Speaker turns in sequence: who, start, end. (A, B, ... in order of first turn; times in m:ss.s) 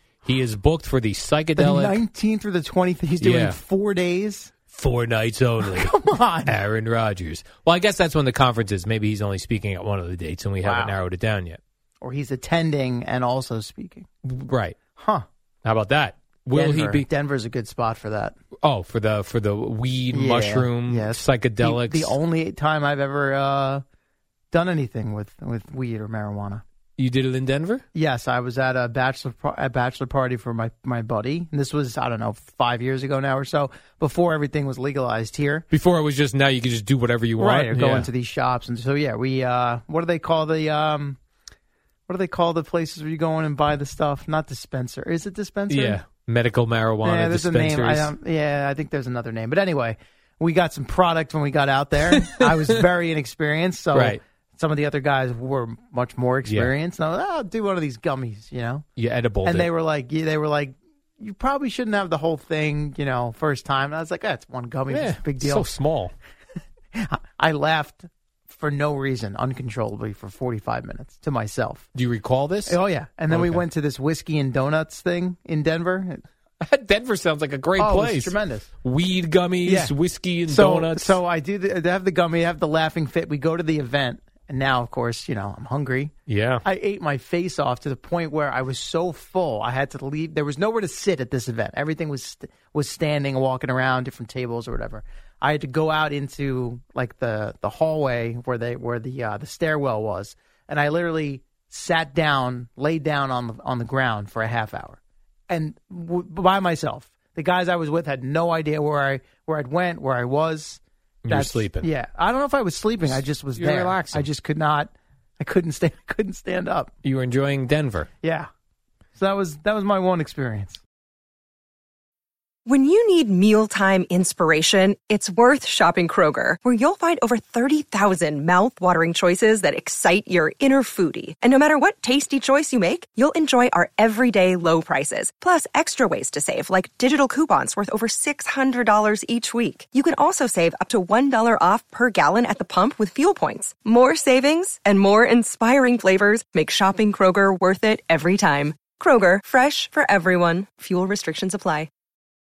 0:00.2-0:02.0 A
0:01.6-0:04.5 B
0:03.2-0:03.6 A
0:04.7-0:11.6 A
0:05.6-0:06.6 B
0:10.6-0:11.0 B
0:12.0-0:14.1 B
0:14.2-0:14.8 A
0:15.0-0:15.2 B
0:15.6-0:17.1 A
0:16.5-0:18.4 B
0:18.6-0:22.1 A
0:20.1-0:23.8 B
0:24.5-0:26.6 B
0:27.0-0:27.8 A
0:27.9-0:35.6 B
0:35.7-0:38.1 A
0:37.4-0:41.2 B
0:42.1-0:46.0 B
0:45.7-0:48.1 A
0:47.0-0:58.8 B
0:52.1-0:52.5 A
0:53.9-0:54.2 A
0:56.5-0:56.7 A
0:59.0-0:59.7 A
0:59.4-1:05.7 B
1:04.9-1:06.1 A
1:06.9-1:11.9 B
1:11.9-1:13.6 A
1:12.7-1:16.2 B
1:16.6-1:21.2 A
1:17.8-1:18.7 B
1:19.6-1:19.9 B
1:20.5-1:26.1 B
1:26.3-1:26.6 A
1:26.6-1:45.0 B
1:45.5-1:56.9 B
1:51.2-1:51.9 A
1:53.6-1:54.3 A
1:57.0-1:58.1 A
1:58.2-1:58.5 B
1:59.2-2:00.8 B
2:02.6-2:31.9 C